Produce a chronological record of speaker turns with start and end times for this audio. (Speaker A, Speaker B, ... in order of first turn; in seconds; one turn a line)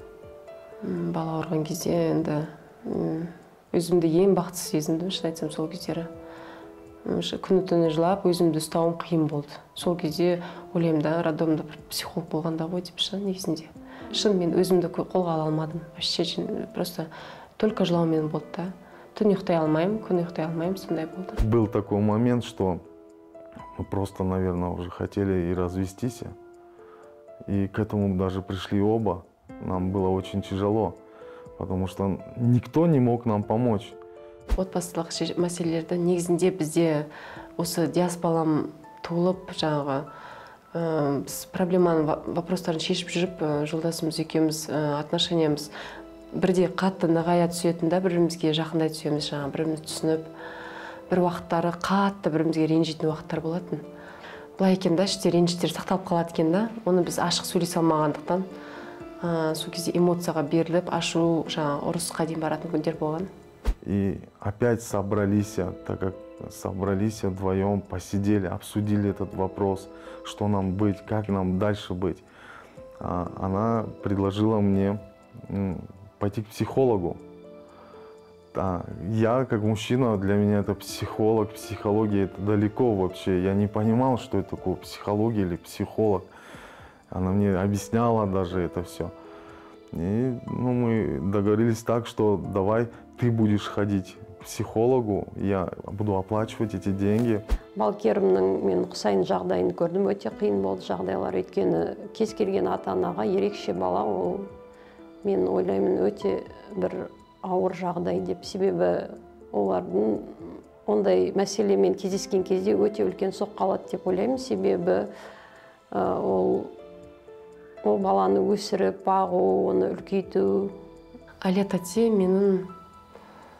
Speaker A: 0.8-6.1
Speaker A: 7.0-21.4
Speaker B: 21.4-22.8
Speaker B: 23.8-26.3
Speaker B: 27.4-31.0
Speaker B: 31.6-34.0
Speaker A: 34.5-40.1
Speaker A: 40.7-45.7
Speaker A: 46.3-50.3
Speaker A: 51.1-53.8
Speaker A: 54.6-58.5
Speaker A: 59.2-63.3
Speaker B: 63.8-72.2
Speaker B: 73.0-77.2
Speaker B: 78.5-86.3
Speaker B: 87.1-89.1
Speaker B: 89.9-97.4
Speaker C: 97.8-104.5
Speaker C: 105.2-115.1
Speaker C: 115.9-116.7
Speaker C: 117.8-120.7
Speaker A: 121.4-122.7